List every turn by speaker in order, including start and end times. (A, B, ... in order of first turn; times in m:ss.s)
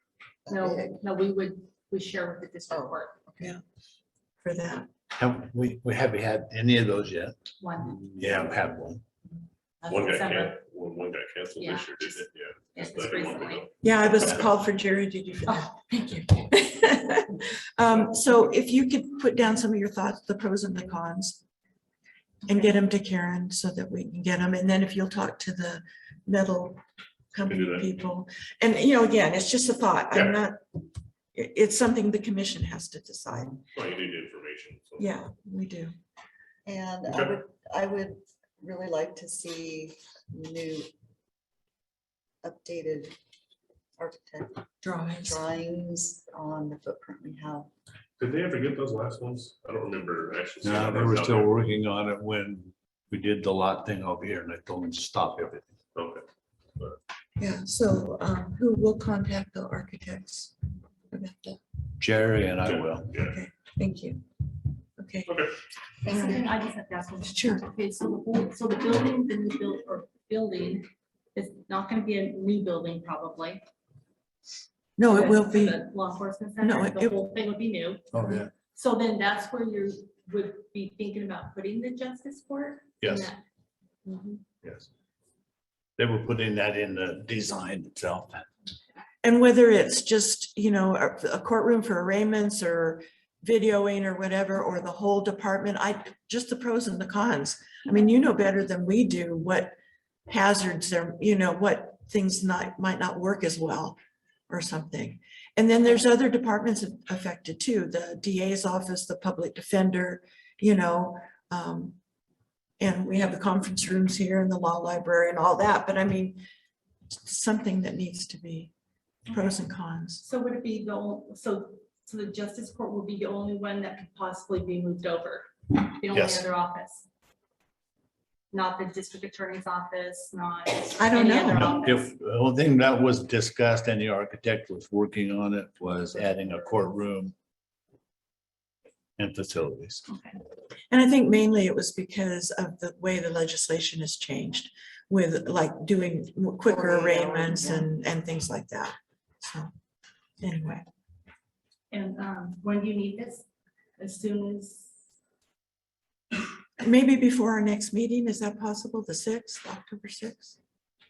0:00.4-0:01.0 A
0:00.5-0:03.2 B
0:02.7-0:03.6 A
0:04.4-0:04.9 C
0:05.2-0:07.4 D
0:07.6-0:08.1 B
0:08.1-0:09.0 D
0:09.8-0:10.6 B
0:09.8-0:14.5 E
0:11.5-0:13.7 B
0:13.8-0:21.4 C
0:22.4-0:26.8 C
0:27.3-0:30.6 C
0:27.4-0:27.9 E
0:30.1-0:30.4 E
0:31.3-0:33.6 C
0:33.7-0:35.2 E
0:35.0-0:36.0 C
0:36.6-0:40.9 A
0:37.0-0:37.3 E
0:42.4-0:43.2 A
0:44.0-0:47.7 A
0:44.8-0:45.4 C
0:48.2-0:51.6 E
0:50.6-0:55.7 D
0:55.9-0:56.2 E
0:57.4-1:00.5 C
1:01.1-1:01.6 C
1:02.0-1:03.2 D
1:02.6-1:03.4 E
1:03.3-1:04.2 C
1:05.0-1:05.4 C
1:05.2-1:05.5 E
1:06.0-1:13.6 B
1:06.1-1:06.5 C
1:07.2-1:07.6 C
1:15.0-1:15.8 C
1:15.0-1:18.2 B
1:16.6-1:17.2 C
1:18.1-1:18.5 D
1:18.7-1:23.4 B
1:23.0-1:23.3 D
1:24.1-1:24.4 B
1:24.6-1:24.9 D
1:26.0-1:28.4 D
1:29.2-1:39.7 C
1:40.3-1:44.0 C
1:44.5-1:52.0 C
1:52.8-1:56.4 C
1:57.1-1:58.7 C
1:59.3-1:59.6 B
1:59.3-2:00.2 C
2:00.2-2:07.1 B
2:06.1-2:06.5 D
2:08.5-2:12.1 B
2:11.0-2:11.5 C
2:11.4-2:17.3 D
2:19.2-2:20.0 D
2:20.1-2:20.4 B
2:20.9-2:29.7 C
2:26.6-2:27.9 A
2:30.4-2:30.8 C
2:31.9-2:33.4 B
2:34.0-2:34.9 B
2:36.8-2:40.6 C